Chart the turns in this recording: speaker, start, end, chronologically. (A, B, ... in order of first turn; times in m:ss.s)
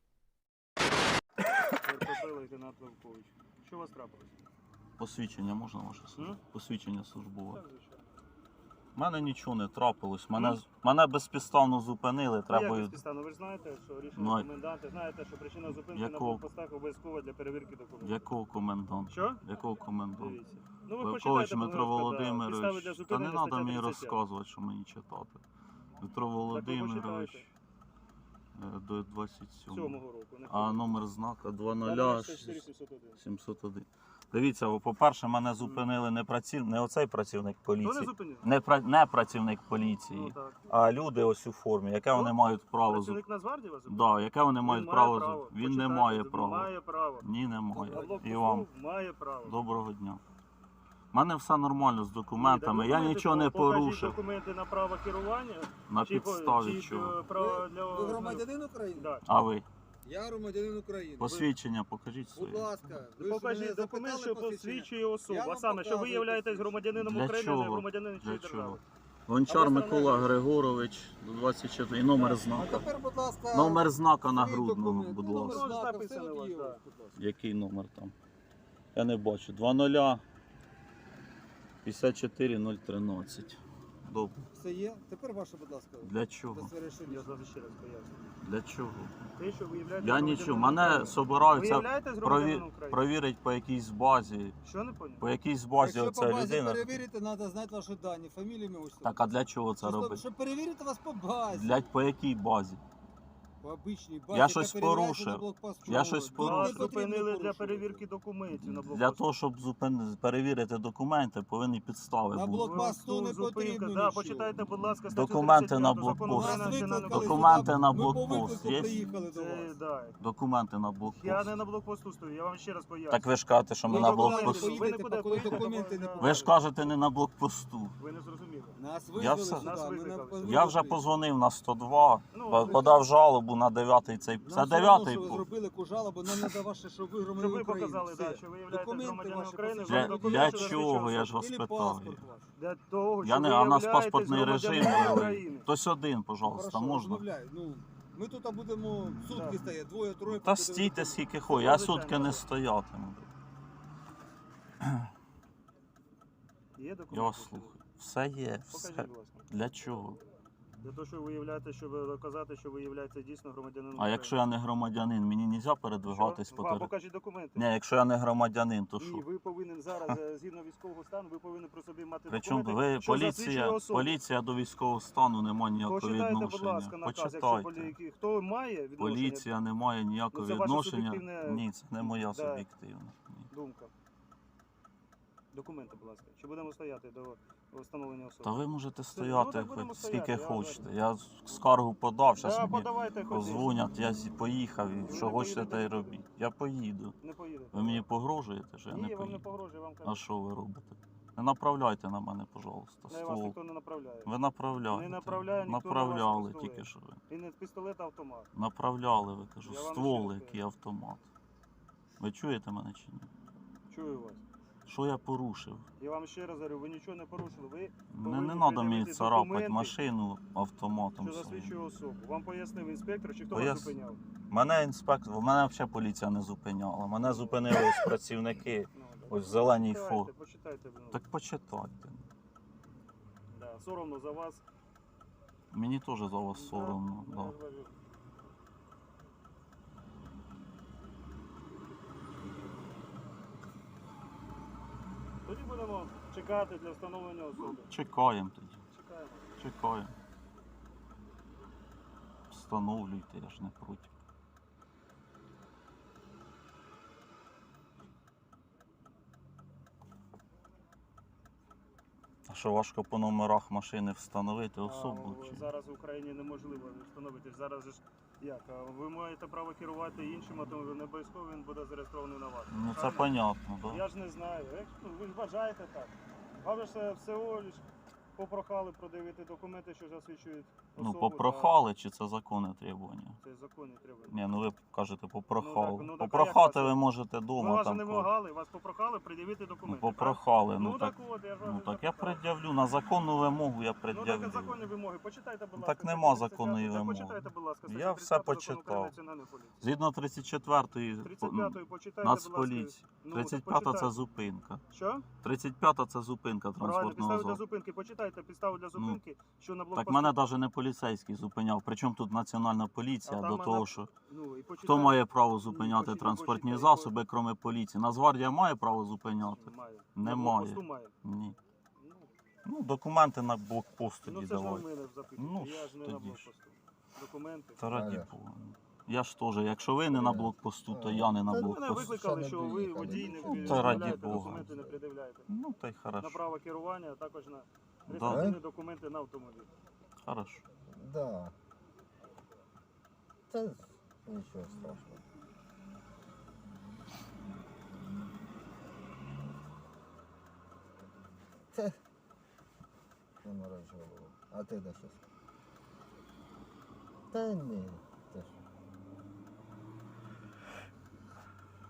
0:01.8-0:04.4 A
0:05.0-0:07.6 B
0:07.5-0:08.1 A
0:08.9-0:13.0 B
0:10.3-0:10.6 A
0:12.5-0:18.2 A
0:14.2-0:14.5 B
0:15.7-0:16.4 B
0:18.0-0:20.4 B
0:19.1-0:19.4 A
0:20.2-0:24.2 A
0:21.0-0:25.4 B
0:26.0-0:27.5 B
0:26.5-0:27.5 A
0:28.5-0:32.6 B
0:29.7-0:30.9 A
0:31.8-0:33.2 A
0:33.2-0:43.2 B
0:37.8-0:38.5 A
0:39.8-0:40.7 A
0:42.1-0:47.2 A
0:43.9-0:48.7 B
0:47.7-0:48.3 C
0:47.8-0:49.6 A
0:49.4-0:50.2 B
0:51.1-0:54.2 B
0:52.4-0:59.2 A
0:55.9-0:57.2 B
0:57.3-0:59.1 C
0:59.2-0:59.6 B
1:00.0-1:01.3 C
1:01.2-1:02.7 B
1:02.4-1:06.8 C
1:03.2-1:08.8 A
1:07.0-1:12.8 B
1:09.5-1:10.4 A
1:12.1-1:17.2 C
1:13.5-1:15.7 B
1:15.4-1:16.8 A
1:17.2-1:18.1 B
1:18.9-1:20.2 B
1:21.8-1:24.4 B
1:24.5-1:27.3 C
1:26.0-1:26.7 B
1:27.0-1:28.2 A
1:28.4-1:29.1 B
1:29.4-1:33.0 A
1:30.0-1:34.5 B
1:34.6-1:35.2 A
1:35.2-1:37.0 B
1:35.8-1:39.2 C
1:39.0-1:40.2 B
1:39.8-1:41.9 C
1:41.5-1:42.8 B
1:43.6-1:48.0 C
1:44.3-1:46.9 B
1:46.3-1:49.2 A
1:48.5-1:52.9 B
1:52.3-1:54.7 C
1:52.5-1:57.7 A
1:55.1-1:59.0 B
1:56.2-1:59.8 C
1:58.3-2:00.2 A
2:00.2-2:01.6 B
2:01.1-2:03.2 A
2:03.1-2:05.6 B
2:03.8-2:06.5 A
2:03.9-2:06.5 C
2:06.2-2:08.0 B
2:08.0-2:08.8 A
2:08.8-2:11.0 C
2:09.1-2:09.7 B
2:09.5-2:10.7 A
2:10.4-2:15.4 B
2:12.3-2:13.0 A
2:14.4-2:22.5 C
2:16.2-2:16.6 B
2:17.4-2:21.2 A
2:19.8-2:22.2 B
2:22.5-2:25.7 A
2:23.2-2:27.2 B
2:26.4-2:31.2 C
2:29.2-2:29.6 A
2:30.3-2:33.3 B
2:31.5-2:32.4 A
2:36.8-2:37.7 A
2:37.1-2:40.2 B
2:38.7-2:39.5 A
2:40.8-2:44.4 A
2:44.0-2:46.9 B
2:46.1-2:47.6 A
2:47.6-2:49.2 B
2:49.0-2:54.1 A
2:52.3-2:57.9 B
2:55.8-2:59.5 A
2:59.0-3:03.5 B
3:00.3-3:02.7 A
3:03.5-3:03.9 A
3:05.5-3:10.8 A
3:08.4-3:17.2 B
3:12.4-3:13.8 A
3:15.0-3:16.2 A
3:17.2-3:18.1 A
3:17.7-3:19.4 B
3:18.9-3:20.2 A
3:20.0-3:23.6 B
3:23.1-3:24.3 A
3:24.2-3:27.2 B
3:24.9-3:28.5 A
3:28.5-3:31.3 B
3:29.6-3:30.6 A
3:32.2-3:33.3 B
3:33.9-3:34.4 A
3:34.8-3:35.8 B
3:36.0-3:40.0 A
3:38.1-3:41.7 B
3:41.2-3:44.2 A
3:43.5-3:43.9 B
3:44.5-3:50.3 B
3:47.2-3:47.7 A
3:48.9-3:51.2 A
3:51.1-3:52.2 B
3:53.5-3:54.6 A
3:55.7-3:57.5 B
3:56.5-3:57.9 A
4:05.4-4:07.9 A
4:07.7-4:08.8 B
4:08.9-4:09.5 A
4:09.6-4:10.1 B
4:12.5-4:14.1 B
4:22.5-4:25.7 B
4:24.8-4:33.3 A
4:32.7-4:34.0 B
4:33.8-4:37.8 A
4:38.4-4:41.7 A
4:41.0-4:43.4 B
4:43.4-4:44.3 A
4:44.3-4:48.3 B
4:45.6-4:47.0 A
4:47.6-4:52.4 A
4:49.8-4:54.8 B
4:54.1-4:59.8 A
4:55.8-4:59.2 B
4:59.8-5:04.8 B
5:01.2-5:04.1 A
5:04.9-5:05.2 A
5:05.4-5:07.6 B
5:06.8-5:10.4 A
5:08.9-5:09.2 B
5:09.9-5:14.1 B
5:13.2-5:17.1 A
5:14.8-5:21.6 B
5:19.4-5:21.1 A
5:22.0-5:22.3 A
5:22.6-5:26.5 B
5:24.2-5:27.8 A
5:27.8-5:32.1 B
5:27.9-5:28.3 D
5:30.1-5:35.0 D
5:31.5-5:35.5 A
5:33.4-5:34.7 B
5:35.5-5:36.4 B
5:36.2-5:39.7 A
5:38.1-5:38.5 B
5:38.2-5:38.6 D
5:40.2-5:40.6 B
5:40.9-5:41.5 D
5:43.5-5:45.2 D
5:51.7-5:52.0 D
5:53.4-5:55.2 D
5:57.3-5:58.6 D